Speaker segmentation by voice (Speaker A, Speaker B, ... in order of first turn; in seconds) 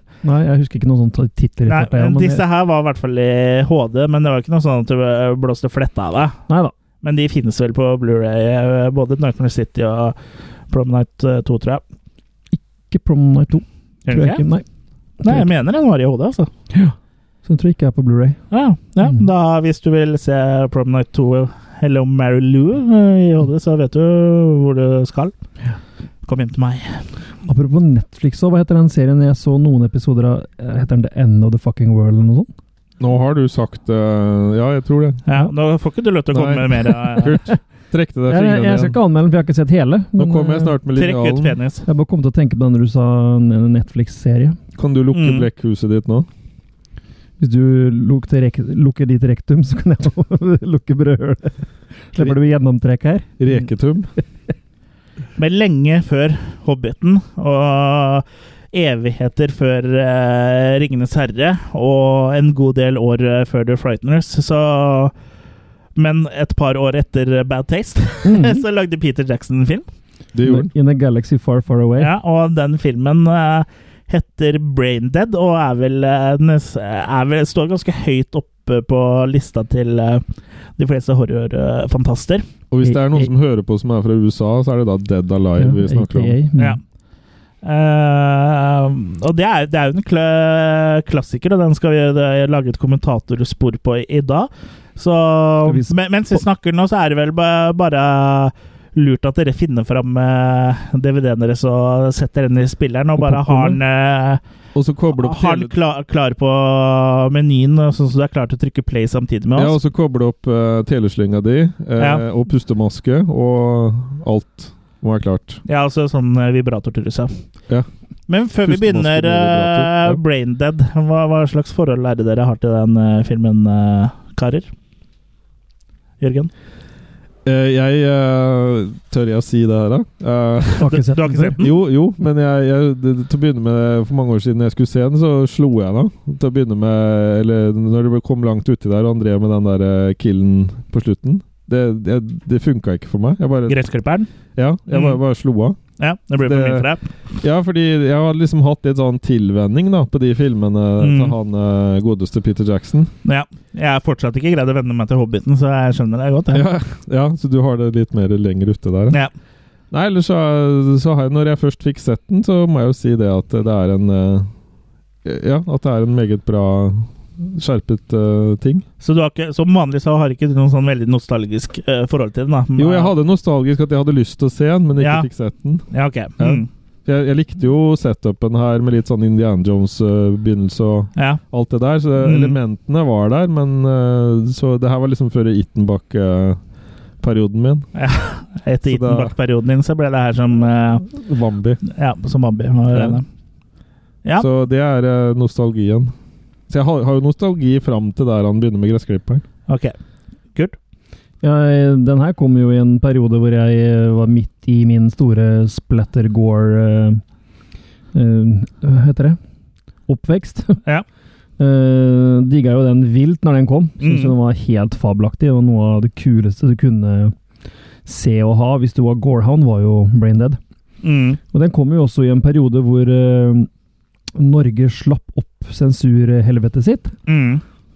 Speaker A: 0.2-2.4, 12.5-14.7, 15.2-15.5, 17.4-18.4, 27.5-32.5, 38.3-40.8, 41.9-44.6, 47.4-53.3, 68.3-68.6, 70.4-72.1, 82.8-83.3, 85.6-86.8, 95.7-95.9, 103.2-103.8, 130.8-131.6, 201.4-207.2, 208.1-209.4, 210.1-210.8, 211.6-217.3, 218.1-220.6, 221.5-223.7, 224.3-227.2
Speaker B: 1.7-6.4, 7.0-10.2, 10.7-11.8, 14.1-14.4, 15.2-16.5, 18.5-25.3, 26.3-27.1, 35.3-37.4, 41.0-41.9, 45.1-45.5, 55.4-65.1, 66.0-69.8, 72.0-80.2, 80.8-82.5, 87.6-104.4, 105.1-109.8, 112.0-112.2, 115.7-117.4, 118.3-124.7, 126.2-126.5, 130.8-131.8, 143.7-144.3, 144.9-145.2, 146.0-147.1, 151.0-151.3, 153.2-156.7, 169.0-173.1, 175.0-175.3, 175.9-176.7, 181.2-181.4, 182.2-182.6, 187.9-191.1, 191.8-193.3, 199.7-199.9, 214.0-214.3, 221.0-221.4, 227.3-227.6
Speaker C: 33.0-35.2, 36.3-39.0, 40.2-41.6, 44.8-46.3, 53.4-54.1, 70.3-70.7, 82.7-86.4, 104.8-105.7, 109.6-115.6, 118.6-120.2, 127.5-130.9, 131.6-143.8, 144.6-145.8, 146.4-146.9, 147.4-153.1, 156.5-159.2, 159.9-164.5, 165.2-168.8, 172.8-175.8, 176.4-186.6, 187.2-187.9, 188.9-189.3, 191.1-191.8, 192.9-193.2, 194.4-196.1, 196.7-199.4